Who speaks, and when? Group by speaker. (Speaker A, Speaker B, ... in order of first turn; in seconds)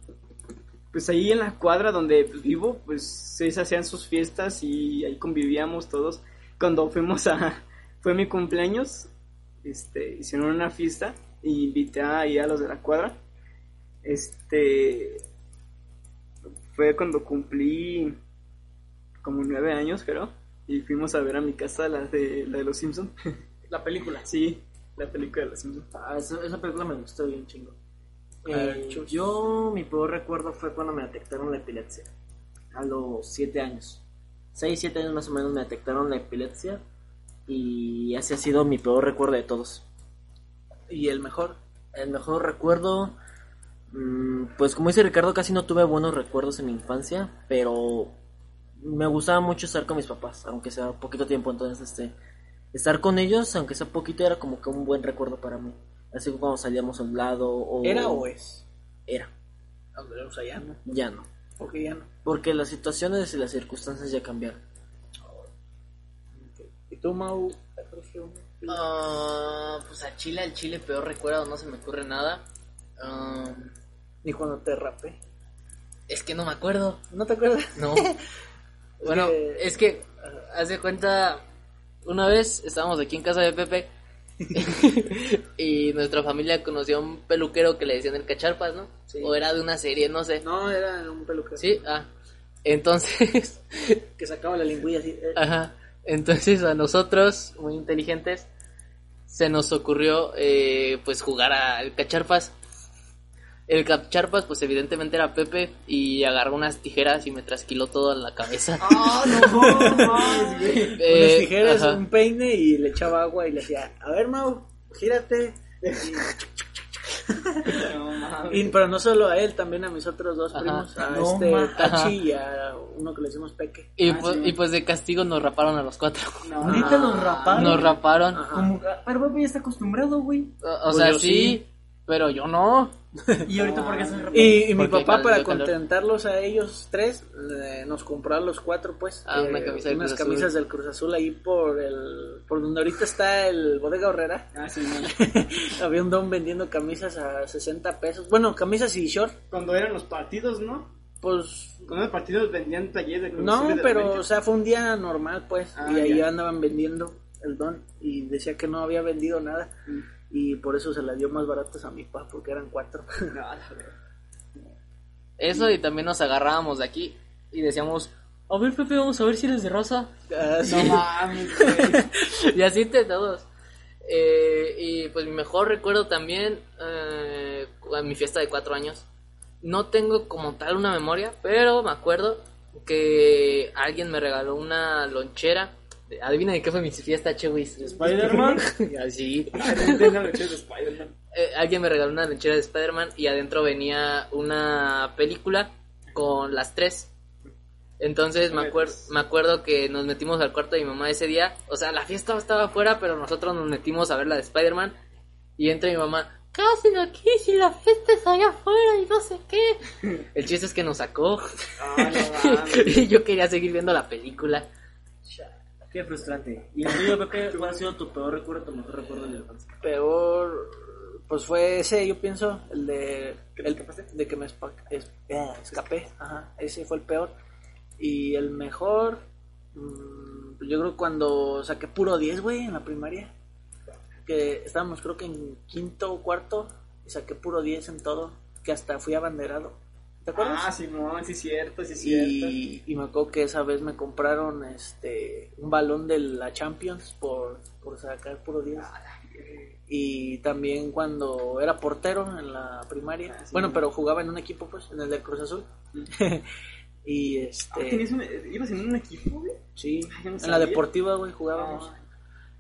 Speaker A: 0.9-9.1, 9.6-13.2, 14.0-15.2, 16.7-18.2, 19.2-23.1, 24.2-25.9, 108.8-111.0, 115.8-116.2, 117.7-118.8, 124.0-124.5, 126.4-127.5, 133.5-134.4, 144.5-145.2, 149.5-150.9, 151.9-154.2, 155.7-156.3, 163.3-163.9, 170.7-172.1, 189.5-191.1, 198.5-199.1, 211.8-213.1, 217.5-217.8, 223.6-224.1, 240.4-242.6, 248.8-249.7, 253.3-253.8, 257.7-260.9, 261.5-262.0
Speaker B: 23.7-24.3, 28.5-29.3, 40.9-41.6, 57.8-58.6, 59.9-60.8, 61.6-62.1, 66.3-68.8, 74.2-75.2, 77.1-78.2, 79.0-79.7, 89.1-89.3, 90.4-91.8, 94.2-95.4, 109.2-116.5, 117.1-117.9, 118.5-123.9, 126.7-128.7, 130.9-131.6, 134.3-144.5, 145.0-149.4, 151.2-151.9, 153.4-159.7, 160.3-163.4, 170.3-172.1, 219.8-227.3, 228.0-229.2, 229.7-233.3, 234.2-240.7, 242.0-248.9, 249.9-256.5, 257.0-258.1, 259.8-261.9
Speaker C: 25.9-27.8, 28.4-32.1, 32.7-34.0, 34.5-36.8, 37.5-39.8, 41.9-43.1, 43.9-48.1, 48.8-52.1, 52.7-58.3, 60.8-61.3, 62.2-64.6, 121.0-121.9, 126.6-130.5, 133.4-134.7, 187.9-188.7, 215.9-219.8
Speaker D: 68.7-72.4, 73.0-73.7, 76.1-77.0, 77.8-78.1, 79.0-81.4, 82.0-83.9, 84.5-90.4, 91.6-92.1, 92.6-94.0, 95.4-98.5, 99.3-102.5, 103.7-109.2, 110.8-112.0, 120.5-120.9, 121.8-122.2, 124.0-128.5, 130.6-132.9, 134.6-135.7, 139.2-140.5, 165.4-170.1, 170.7-173.4, 174.0-179.0, 179.6-190.4, 191.3-197.1, 198.0-204.9, 205.6-214.7